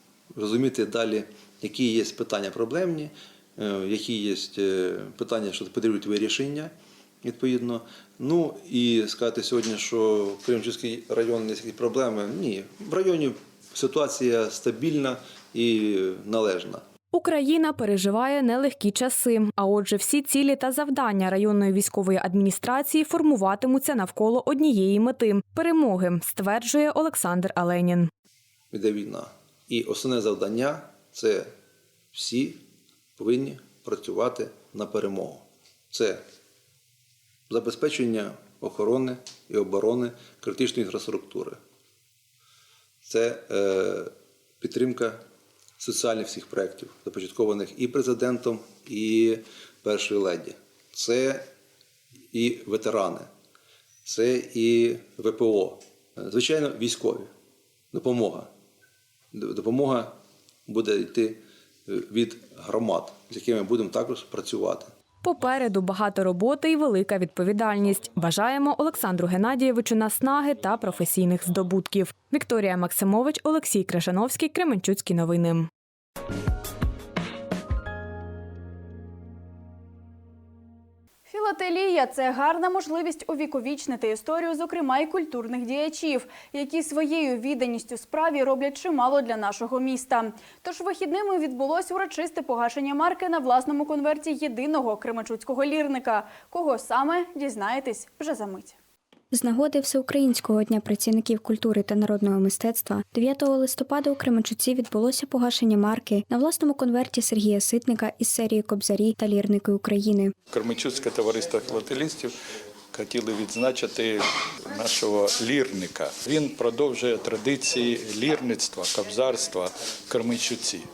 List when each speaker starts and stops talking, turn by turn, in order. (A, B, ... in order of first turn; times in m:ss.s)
0:00.4-0:16.8 A
0:17.1-0:28.1 B
0:28.7-0:31.5 A
0:32.1-0:32.6 A
0:33.2-0:36.2 A
0:37.5-0:41.6 A
0:43.1-0:45.2 A
0:45.8-0:51.5 A
0:52.3-0:53.3 A
0:54.0-0:57.3 A
0:57.9-0:58.5 A
0:59.3-1:00.1 A
1:00.7-1:04.9 A
1:05.2-1:15.7 B
1:21.3-1:38.8 C
1:39.3-1:50.4 D
1:50.5-1:52.3 E
1:52.9-1:54.2 E
1:54.8-2:00.8 E